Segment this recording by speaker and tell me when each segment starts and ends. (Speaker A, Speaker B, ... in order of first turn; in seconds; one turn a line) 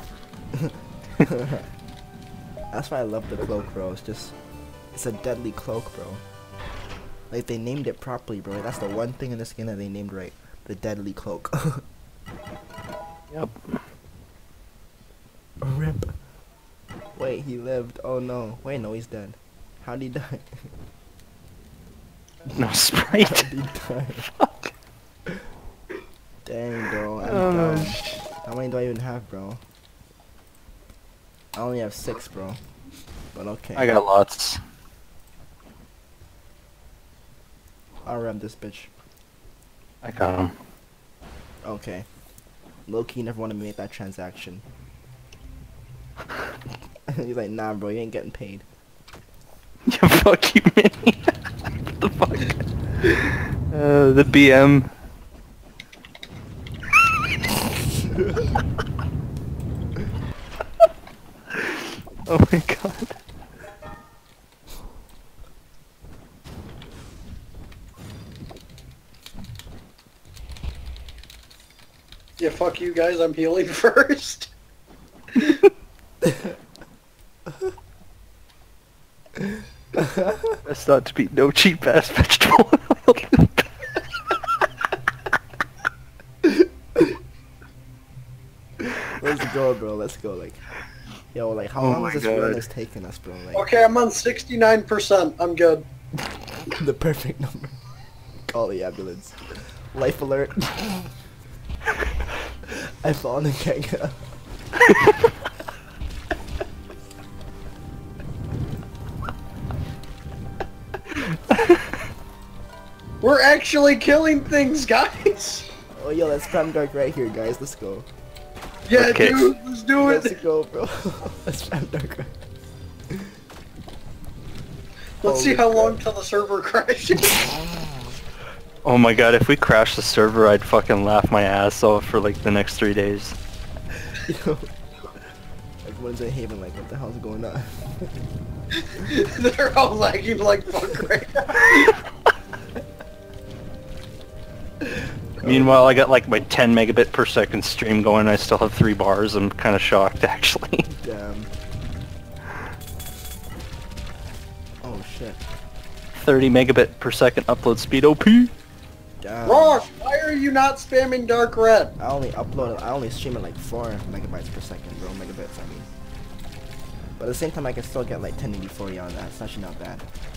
Speaker A: 0.5-1.7
Speaker A: 2.7-4.3
Speaker A: 4.9-6.2
Speaker A: 7.3-11.8
Speaker B: 13.3-13.8
Speaker A: 15.6-16.1
Speaker A: 17.2-20.7
Speaker B: 22.5-23.5
Speaker A: 23.2-24.3
Speaker B: 24.2-24.7
Speaker A: 26.4-29.6
Speaker B: 27.2-28.2
Speaker A: 31.6-32.6
Speaker A: 33.3-33.9
Speaker B: 33.8-34.6
Speaker A: 38.1-38.9
Speaker B: 40.0-40.5
Speaker A: 41.6-42.1
Speaker A: 42.9-44.6
Speaker A: 47.1-48.6
Speaker B: 49.9-54.9
Speaker B: 61.5-63.2
Speaker C: 72.4-74.5
Speaker C: 75.3-75.6
Speaker A: 76.2-76.5
Speaker A: 79.4-80.6
Speaker B: 80.7-83.9
Speaker A: 86.4-87.1
Speaker A: 88.8-90.6
Speaker A: 91.3-93.7
Speaker B: 91.8-92.6
Speaker C: 93.5-95.8
Speaker A: 96.7-97.8
Speaker A: 98.5-101.1
Speaker A: 102.7-104.2
Speaker B: 111.5-111.8
Speaker C: 113.2-115.7
Speaker A: 116.0-118.1
Speaker C: 118.9-120.3
Speaker B: 118.9-119.5
Speaker A: 120.0-122.4
Speaker C: 125.2-127.4
Speaker A: 125.2-126.0
Speaker B: 128.8-133.4
Speaker A: 134.0-134.7
Speaker A: 135.8-138.2
Speaker C: 138.8-142.0
Speaker A: 144.8-146.1
Speaker B: 145.4-150.9
Speaker A: 150.9-151.5
Speaker A: 154.8-155.4
Speaker B: 156.1-158.5
Speaker A: 159.2-159.8
Speaker C: 159.5-161.9
Speaker A: 162.0-165.9
Speaker A: 167.2-170.1